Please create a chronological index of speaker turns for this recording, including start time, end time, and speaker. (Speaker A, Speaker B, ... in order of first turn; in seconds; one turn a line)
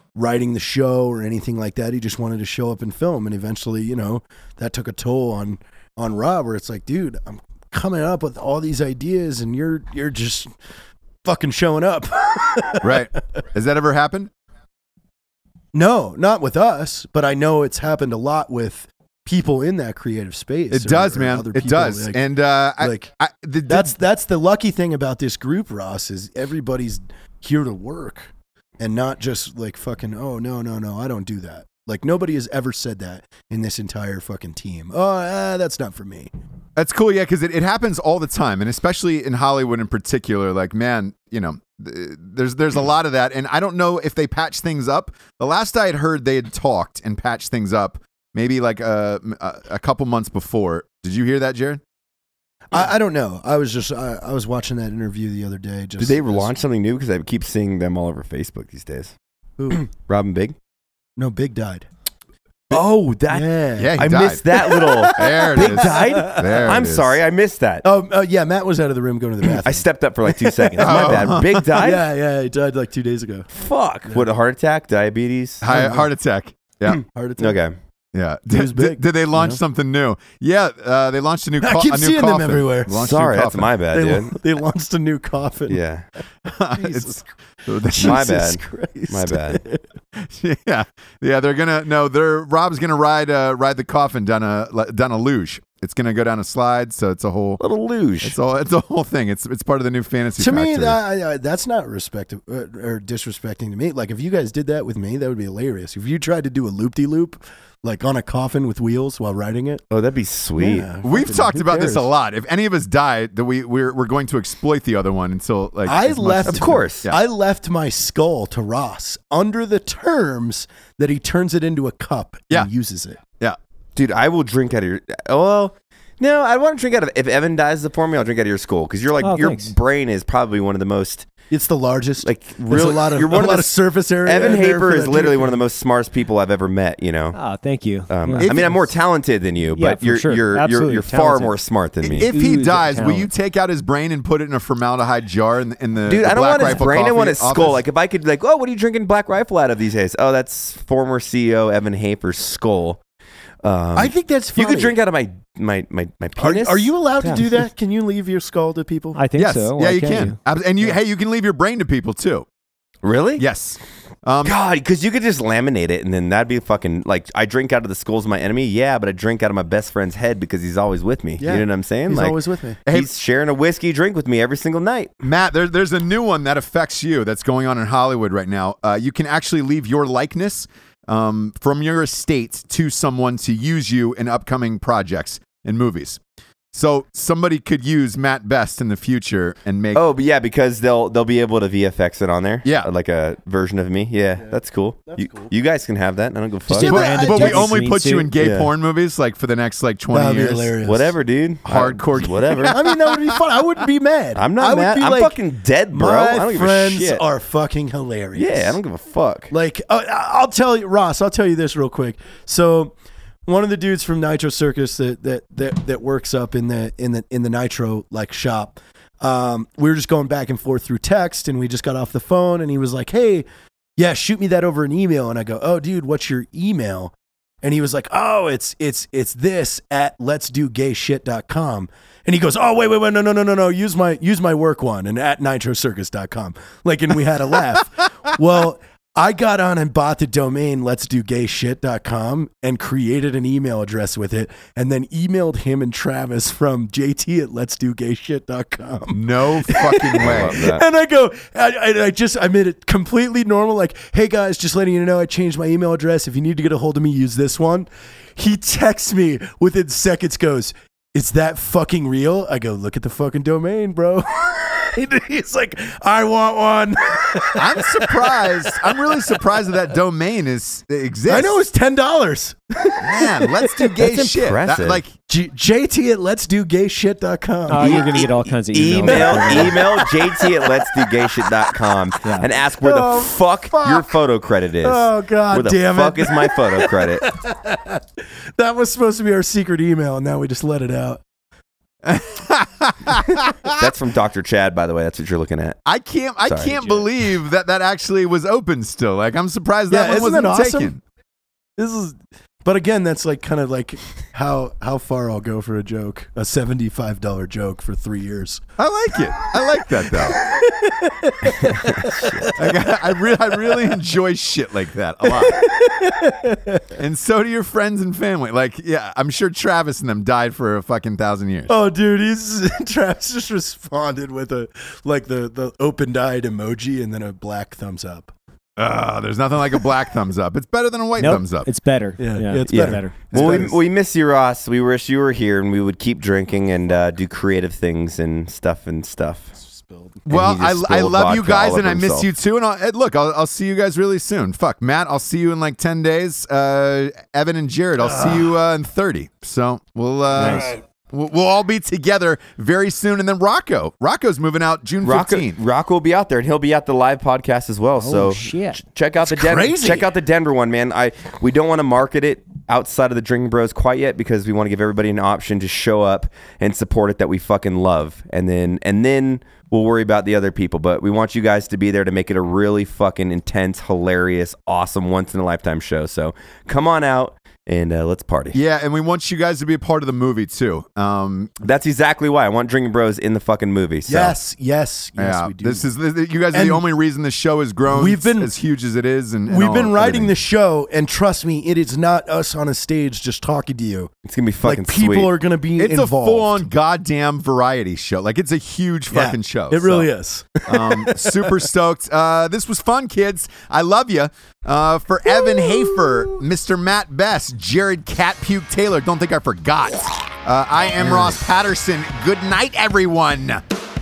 Speaker A: 0.1-10.5
Speaker A: 11.2-13.1
Speaker B: 12.8-14.3
Speaker A: 15.7-22.2
Speaker B: 20.7-23.9
Speaker A: 22.8-23.1
Speaker A: 23.7-36.3
Speaker B: 36.8-51.8
Speaker A: 52.7-56.5
Speaker C: 56.0-59.1
Speaker A: 59.6-59.9
Speaker C: 59.7-60.5
Speaker A: 61.2-61.9
Speaker A: 62.7-66.8
Speaker C: 62.7-67.8
Speaker B: 63.8-64.4
Speaker B: 65.1-67.2
Speaker A: 67.8-73.5
Speaker C: 69.4-72.0
Speaker B: 70.8-71.7
Speaker C: 73.5-75.6
Speaker B: 75.6-77.0
Speaker A: 75.7-76.1
Speaker A: 76.8-77.6
Speaker C: 77.4-77.7
Speaker B: 78.1-83.7
Speaker A: 78.5-79.6
Speaker A: 81.6-83.0
Speaker C: 82.9-84.4
Speaker A: 83.9-85.8
Speaker C: 85.7-86.0
Speaker A: 86.5-87.2
Speaker B: 86.5-88.2
Speaker A: 87.8-89.8
Speaker C: 87.9-89.6
Speaker B: 90.2-97.6
Speaker C: 97.6-98.3
Speaker B: 98.2-101.0
Speaker A: 100.4-109.8
Speaker C: 109.9-110.9
Speaker A: 110.6-112.1
Speaker B: 111.0-117.2
Speaker A: 115.8-123.2
Speaker C: 116.4-117.1
Speaker C: 124.0-131.3
Speaker D: 129.2-129.7
Speaker A: 131.5-135.6
Speaker C: 132.2-133.7
Speaker C: 134.2-137.4
Speaker D: 137.3-138.5
Speaker C: 138.1-142.3
Speaker B: 138.4-138.8
Speaker D: 139.7-141.5
Speaker B: 142.0-147.8
Speaker D: 142.2-143.3
Speaker C: 146.1-153.0
Speaker C: 153.6-157.7
Speaker A: 153.9-155.0
Speaker A: 156.4-159.2
Speaker D: 159.1-160.4
Speaker B: 159.3-162.4
Speaker C: 163.0-163.4
Speaker B: 163.4-164.5
Speaker C: 164.4-175.2
Speaker A: 171.4-172.8
Speaker B: 175.2-186.2
Speaker B: 186.7-190.0
Speaker C: 189.9-197.6
Speaker A: 194.4-195.5
Speaker D: 196.7-198.3
Speaker B: 196.8-200.8
Speaker A: 196.8-197.6
Speaker C: 198.4-198.7
Speaker A: 200.1-201.1
Speaker C: 200.8-202.9
Speaker B: 201.6-202.8
Speaker A: 202.7-205.4
Speaker C: 204.3-207.2
Speaker A: 205.9-208.8
Speaker C: 208.3-209.5
Speaker A: 209.5-269.6
Speaker B: 249.1-250.7
Speaker C: 250.2-250.8
Speaker B: 267.6-271.6
Speaker A: 271.2-274.1
Speaker B: 273.0-275.1
Speaker C: 274.0-275.0
Speaker A: 275.3-278.2
Speaker D: 277.7-279.8
Speaker C: 277.8-287.3
Speaker A: 278.9-281.8
Speaker D: 282.2-282.5
Speaker A: 282.7-284.1
Speaker A: 284.8-291.2
Speaker B: 292.0-293.9
Speaker C: 293.8-295.8
Speaker B: 295.9-301.0
Speaker C: 296.4-296.8
Speaker A: 299.9-300.9
Speaker A: 301.8-308.6
Speaker B: 308.8-310.4
Speaker A: 309.5-313.9
Speaker C: 311.4-312.6
Speaker B: 312.5-315.7
Speaker A: 315.2-316.9
Speaker B: 316.9-321.7
Speaker A: 321.7-328.3
Speaker B: 328.8-331.7
Speaker D: 331.2-333.3
Speaker A: 332.2-333.8
Speaker C: 332.7-339.5
Speaker B: 333.3-333.7
Speaker A: 339.6-340.2
Speaker B: 340.3-355.6
Speaker C: 340.3-342.3
Speaker A: 348.1-348.5
Speaker D: 350.4-350.7
Speaker A: 350.4-350.8
Speaker C: 355.0-378.6
Speaker D: 358.0-358.8
Speaker A: 359.2-360.1
Speaker B: 378.5-381.6
Speaker C: 381.6-384.4
Speaker A: 384.1-385.8
Speaker B: 385.2-390.3
Speaker A: 386.5-386.8
Speaker A: 387.9-388.5
Speaker A: 389.5-394.1
Speaker C: 394.2-395.3
Speaker A: 394.6-396.6
Speaker B: 395.8-400.1
Speaker A: 399.1-401.6
Speaker B: 400.7-413.6
Speaker A: 405.3-406.3
Speaker C: 411.1-411.3